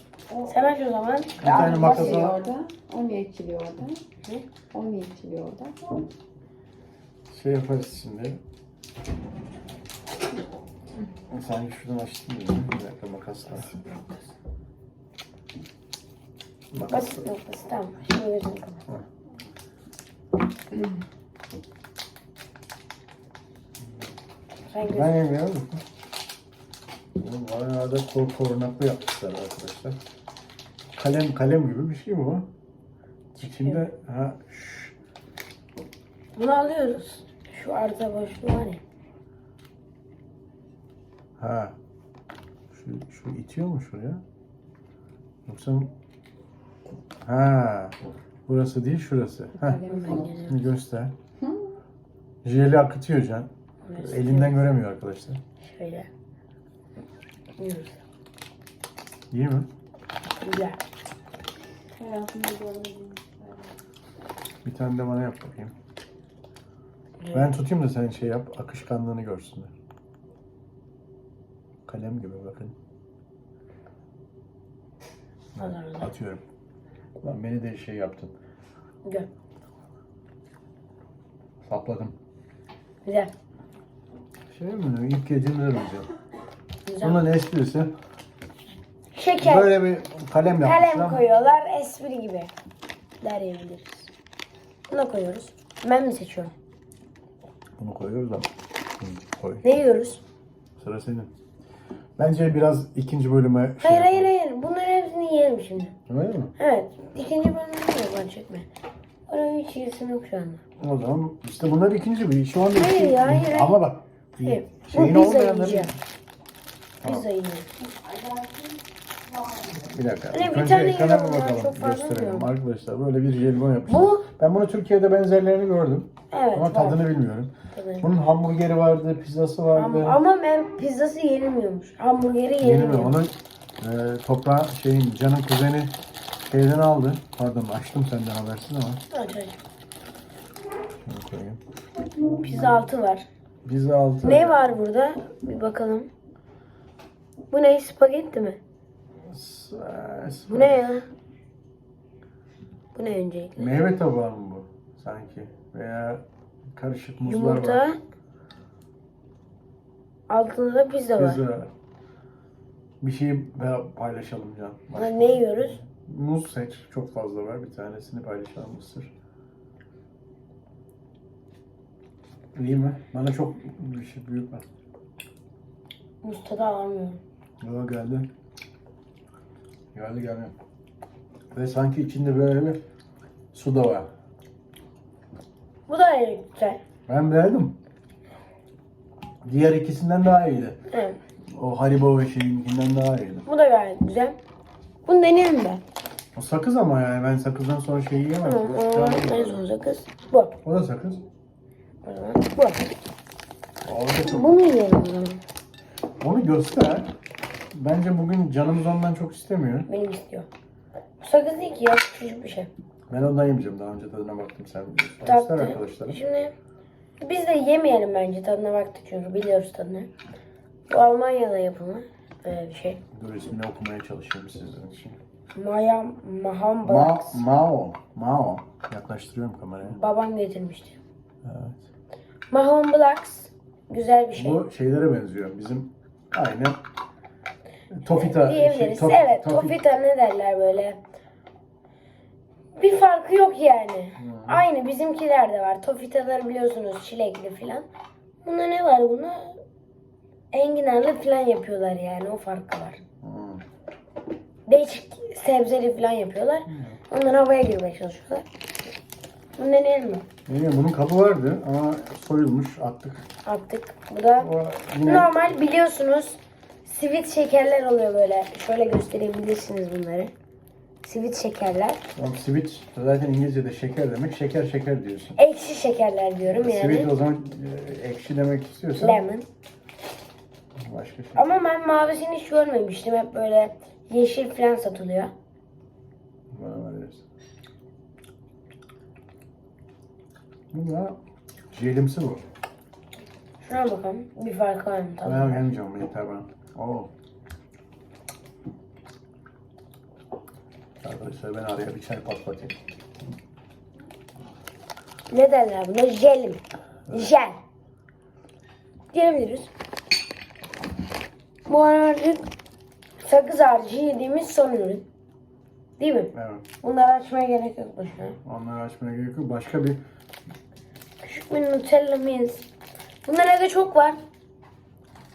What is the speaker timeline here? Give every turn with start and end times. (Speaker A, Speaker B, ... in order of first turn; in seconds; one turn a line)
Speaker A: 0.4-2.3
Speaker B: 1.4-2.4
Speaker C: 1.5-4.0
Speaker C: 4.7-6.1
Speaker B: 7.3-8.4
Speaker B: 11.3-13.9
Speaker B: 16.7-17.2
Speaker A: 16.9-18.8
Speaker A: 24.7-25.2
Speaker B: 24.9-25.8
Speaker B: 27.2-30.0
Speaker B: 31.0-32.5
Speaker A: 33.4-33.9
Speaker B: 33.4-35.0
Speaker A: 36.4-38.8
Speaker B: 41.4-41.8
Speaker B: 42.7-44.2
Speaker B: 45.5-45.9
Speaker B: 47.2-51.1
Speaker C: 49.7-50.2
Speaker A: 49.8-50.6
Speaker B: 52.4-55.4
Speaker A: 53.9-54.6
Speaker A: 55.6-56.1
Speaker A: 57.6-58.0
Speaker B: 59.3-59.7
Speaker A: 60.4-60.8
Speaker C: 62.0-63.7
Speaker B: 64.6-65.7
Speaker A: 67.2-67.5
Speaker B: 67.3-69.7
Speaker B: 71.9-72.8
Speaker B: 75.5-76.4
Speaker A: 75.6-76.1
Speaker B: 77.2-78.3
Speaker B: 81.7-82.2
Speaker A: 83.0-83.3
Speaker B: 84.5-86.1
Speaker A: 86.9-87.2
Speaker B: 87.0-87.9
Speaker A: 89.1-89.8
Speaker B: 89.4-91.2
Speaker A: 90.6-92.5
Speaker A: 93.2-94.1
Speaker A: 94.9-96.5
Speaker B: 97.8-98.5
Speaker B: 99.0-99.6
Speaker A: 99.6-100.2
Speaker B: 100.8-101.3
Speaker B: 102.2-104.3
Speaker A: 103.8-106.0
Speaker B: 106.1-106.5
Speaker A: 106.6-108.7
Speaker A: 109.3-110.6
Speaker B: 110.8-116.0
Speaker A: 112.7-113.7
Speaker A: 114.4-115.9
Speaker A: 117.0-117.7
Speaker C: 118.1-118.7
Speaker C: 119.4-119.8
Speaker B: 119.8-130.2
Speaker A: 120.3-122.5
Speaker A: 123.9-124.3
Speaker A: 126.3-127.0
Speaker A: 127.7-128.1
Speaker A: 129.7-133.2
Speaker B: 132.6-135.9
Speaker B: 136.5-139.0
Speaker A: 139.1-139.6
Speaker B: 141.1-141.6
Speaker A: 142.3-143.3
Speaker B: 143.7-144.8
Speaker A: 144.2-146.1
Speaker A: 147.5-148.6
Speaker B: 149.3-150.8
Speaker A: 150.5-151.1
Speaker A: 152.9-153.7
Speaker B: 153.6-157.8
Speaker A: 157.2-158.0
Speaker A: 160.3-161.4
Speaker B: 161.2-161.7
Speaker B: 163.0-169.1
Speaker A: 164.9-165.8
Speaker B: 172.6-174.6
Speaker A: 176.2-177.2
Speaker B: 177.6-178.3
Speaker B: 179.9-180.6
Speaker B: 181.5-182.8
Speaker B: 183.5-184.1
Speaker A: 185.9-186.8
Speaker B: 187.1-187.8
Speaker B: 189.4-190.8
Speaker A: 190.9-191.2
Speaker B: 191.5-193.5
Speaker A: 193.5-194.4
Speaker A: 195.1-195.8
Speaker B: 196.3-199.6
Speaker A: 198.4-200.6
Speaker B: 200.6-201.2
Speaker A: 202.1-202.8
Speaker B: 203.8-204.6
Speaker A: 204.2-205.4
Speaker B: 206.2-207.1
Speaker B: 207.7-209.9
Speaker A: 209.9-210.5
Speaker A: 211.2-212.7
Speaker B: 213.1-216.2
Speaker A: 215.2-216.5
Speaker A: 217.2-220.1
Speaker A: 220.9-223.0
Speaker B: 223.1-225.2
Speaker A: 225.6-227.4
Speaker B: 226.8-230.0
Speaker A: 229.8-231.0
Speaker B: 231.4-231.8
Speaker A: 232.5-234.6
Speaker B: 234.3-236.8
Speaker B: 237.9-239.8
Speaker A: 238.1-241.0
Speaker A: 242.8-247.9
Speaker B: 244.2-244.7
Speaker A: 248.4-249.6
Speaker A: 250.5-253.0
Speaker B: 253.2-253.6
Speaker A: 254.7-258.5
Speaker B: 256.7-257.0
Speaker A: 259.6-260.3
Speaker B: 260.5-263.3
Speaker A: 263.4-264.5
Speaker B: 264.4-265.3
Speaker A: 265.0-270.3
Speaker A: 271.0-272.0
Speaker B: 272.1-275.4
Speaker A: 275.4-277.1
Speaker B: 276.5-279.2
Speaker A: 279.0-279.5
Speaker B: 280.8-281.5
Speaker A: 281.4-285.3
Speaker B: 286.5-287.2
Speaker B: 290.7-291.2
Speaker B: 291.7-292.4
Speaker A: 293.6-295.7
Speaker B: 295.2-297.1
Speaker B: 301.0-302.8
Speaker A: 305.3-307.6
Speaker B: 307.1-307.3
Speaker A: 309.1-309.7
Speaker A: 311.7-312.5
Speaker A: 313.2-315.1
Speaker A: 316.0-318.4
Speaker B: 316.3-316.7
Speaker B: 318.4-320.0
Speaker A: 321.2-322.7
Speaker A: 323.2-324.2